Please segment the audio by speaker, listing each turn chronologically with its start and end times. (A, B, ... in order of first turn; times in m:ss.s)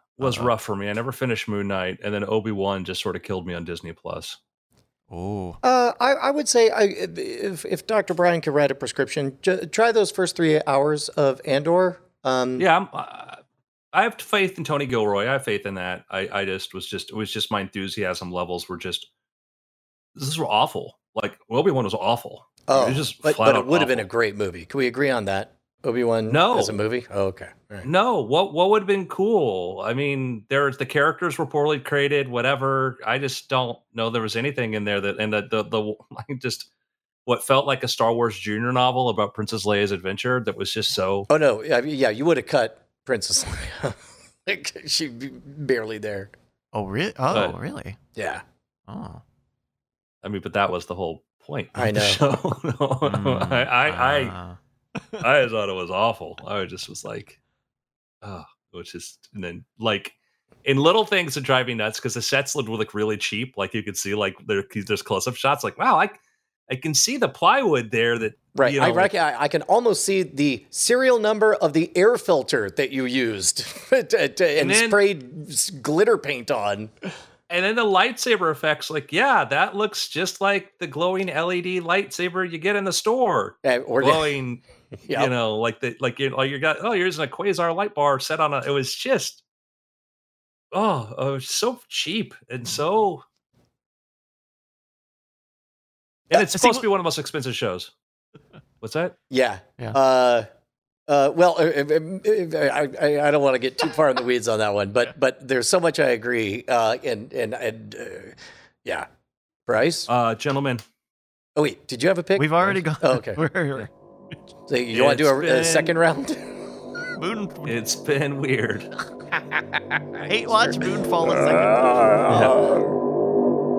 0:00.2-0:04.4 A
0:00.2-0:00.5 B
0:05.1-0:05.6 B
0:05.6-0:12.6 C
0:12.6-0:13.4 A
0:13.9-0:19.1 A
0:20.1-0:24.1 A
0:22.7-0:27.9 C
0:26.3-0:26.8 A
0:27.8-0:36.7 A
0:37.2-0:41.3 A
0:41.3-0:46.3 C
0:46.7-0:48.0 B
0:48.2-0:48.4 C
0:48.9-0:49.2 B
0:50.2-0:54.3 A
0:51.8-0:52.2 C
0:53.0-0:54.6 B
0:55.2-0:57.4 A
0:58.2-1:09.1 A
1:08.5-1:16.9 C
1:14.6-1:15.0 A
1:17.5-1:29.4 A
1:23.6-1:24.3 C
1:30.7-1:33.2 A
1:36.3-1:37.9 A
1:36.3-1:36.8 B
1:38.8-1:39.2 A
1:39.3-1:40.5 C
1:41.1-1:49.1 C
1:49.7-1:50.1 C
1:50.1-1:50.8 A
1:51.6-1:53.4 C
1:52.4-1:53.9 B
1:54.7-1:56.6 C
1:54.9-1:55.9 A
1:57.1-1:57.7 B
1:57.6-1:58.9 A
2:00.2-2:02.5 B
2:00.5-2:02.9 C
2:02.3-2:02.6 A